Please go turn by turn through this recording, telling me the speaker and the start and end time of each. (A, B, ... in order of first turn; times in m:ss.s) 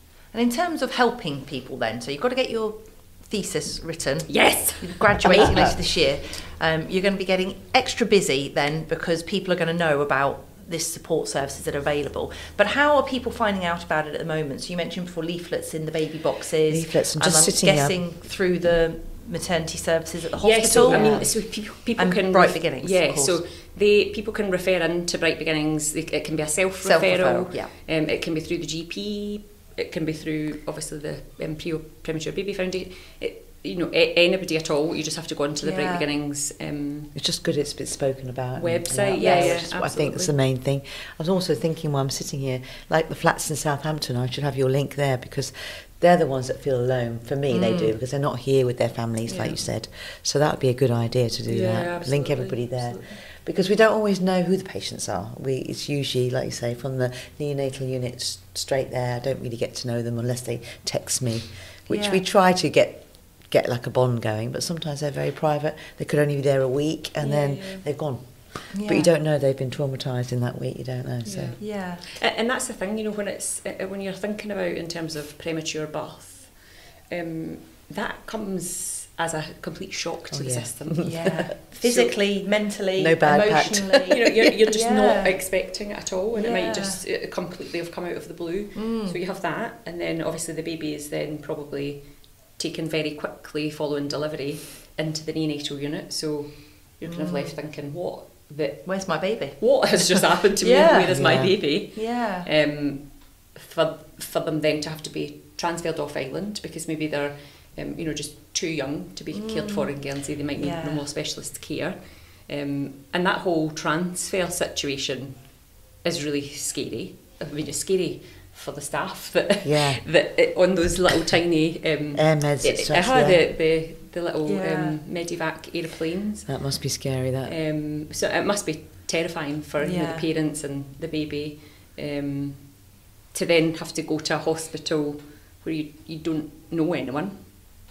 0:00.3-0:23.4 A
0:04.3-0:05.6 B
0:16.7-0:18.0 C
0:20.4-0:37.1 B
0:20.7-0:21.3 C
0:26.8-0:27.7 A
0:35.6-0:36.1 A
0:37.1-1:11.6 C
0:38.5-0:40.3 B
0:39.2-0:39.7 A
0:47.5-0:47.9 A
0:49.2-0:49.6 B
0:51.5-0:53.2 B
1:01.9-1:02.2 A
1:07.2-1:07.8 B
1:08.7-1:09.1 A
1:11.2-1:21.6 B
1:11.6-1:12.0 A
1:20.3-1:22.1 C
1:21.0-1:25.5 A
1:23.0-1:24.4 C
1:24.1-1:55.5 B
1:26.3-1:27.0 A
1:28.7-1:29.2 A
1:37.0-1:37.6 A
1:38.8-1:42.5 A
1:41.1-1:41.6 C
1:49.3-1:51.1 A
1:56.0-2:06.5 B
1:59.6-2:00.0 C
2:02.1-2:03.4 C
2:04.4-2:05.0 A
2:06.4-2:07.5 C
2:07.4-2:17.7 B
2:09.8-2:10.3 A